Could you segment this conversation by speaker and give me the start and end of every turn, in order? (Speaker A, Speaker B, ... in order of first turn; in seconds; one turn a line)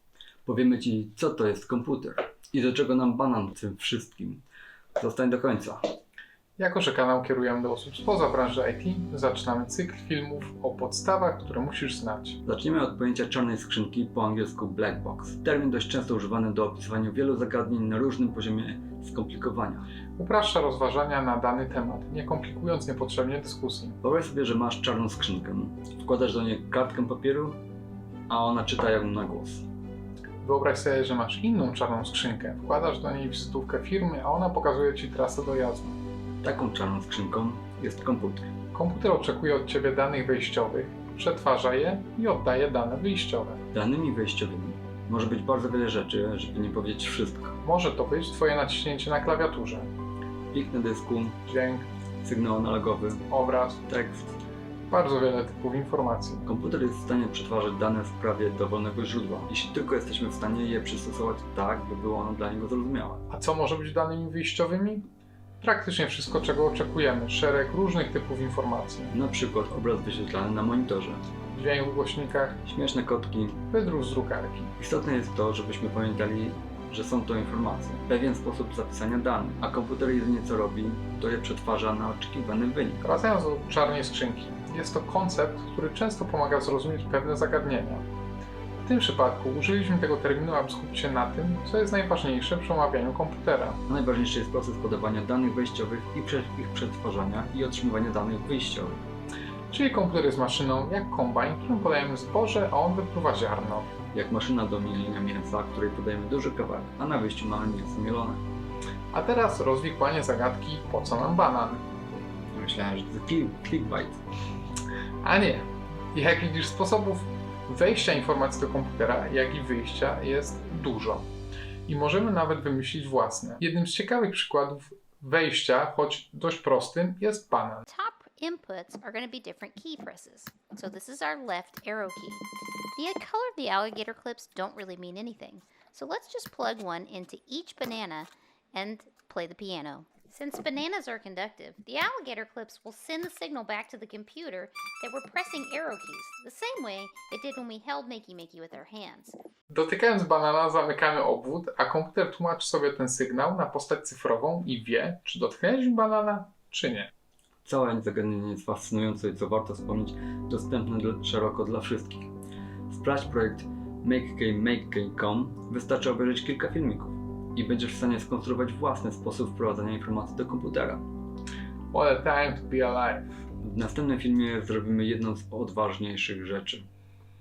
Speaker A: 0.4-4.4
Speaker A: 5.0-5.8
Speaker B: 6.6-12.4
Speaker A: 12.4-19.9
Speaker B: 20.2-24.0
Speaker A: 24.0-27.6
Speaker A: 28.3-29.7
Speaker B: 30.4-36.0
Speaker A: 36.4-38.5
Speaker B: 38.7-43.6
Speaker A: 43.7-47.5
Speaker B: 47.6-49.9
Speaker A: 50.5-51.4
Speaker B: 51.5-51.9
Speaker A: 52.2-53.2
Speaker B: 53.3-53.9
Speaker A: 53.9-54.4
Speaker B: 54.9-56.5
Speaker A: 56.5-63.2
Speaker B: 63.3-65.1
Speaker B: 65.6-69.1
Speaker A: 69.1-71.2
Speaker B: 71.5-72.6
Speaker A: 72.6-73.6
Speaker B: 73.7-74.7
Speaker A: 74.8-83.0
Speaker B: 83.0-88.0
Speaker B: 88.8-93.8
Speaker A: 93.9-99.0
Speaker B: 99.7-103.9
Speaker A: 104.1-108.4
Speaker B: 109.1-111.8
Speaker A: 112.5-114.2
Speaker B: 115.2-121.3
Speaker B: 121.9-127.8
Speaker C: 127.9-149.4
Speaker B: 149.7-157.1
Speaker A: 157.7-162.3
Speaker A: 162.9-171.1
Speaker B: 171.9-173.3
Speaker A: 173.6-176.9